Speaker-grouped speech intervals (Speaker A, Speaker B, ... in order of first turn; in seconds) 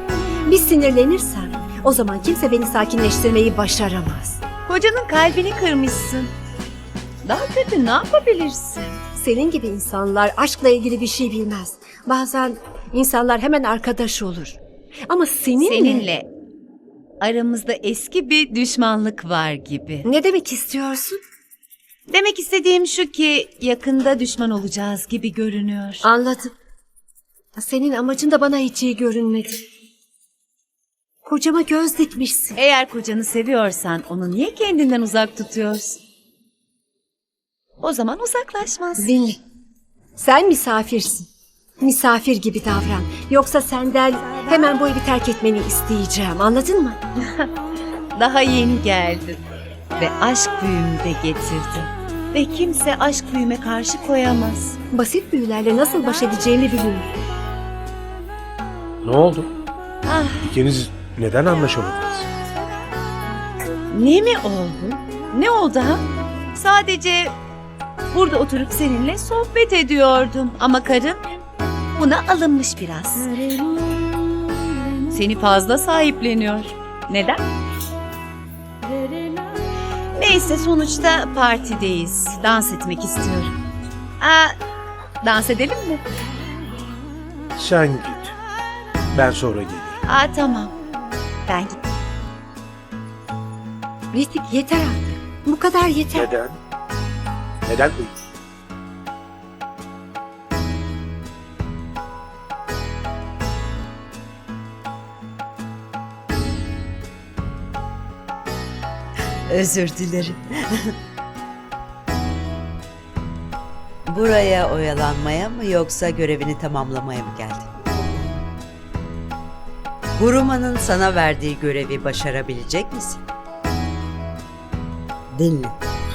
Speaker A: 0.4-4.4, 9.2-16.1, 20.0-21.2, 26.0-26.5, 27.6-29.6, 31.2-32.6, 39.0-39.4, 40.2-41.3, 41.8-47.0, 54.9-57.1, 94.1-96.3
Speaker B: 4.7-6.3, 7.2-9.0, 15.6-16.3, 17.2-20.1, 22.1-26.1, 32.5-36.0, 37.8-39.1, 48.1-49.4, 50.0-54.8, 60.0-60.5, 63.9-67.3, 68.1-71.2, 72.0-73.3, 75.1-77.4, 80.2-83.5, 84.2-84.5, 85.2-86.0, 90.0-90.7, 91.5-91.8
Speaker C: 59.0-59.5, 60.4-62.3, 87.6-88.3, 89.1-90.0, 96.1-96.6, 97.7-98.2
Speaker D: 109.5-110.9, 114.0-117.7, 120.2-123.2, 125.3-125.8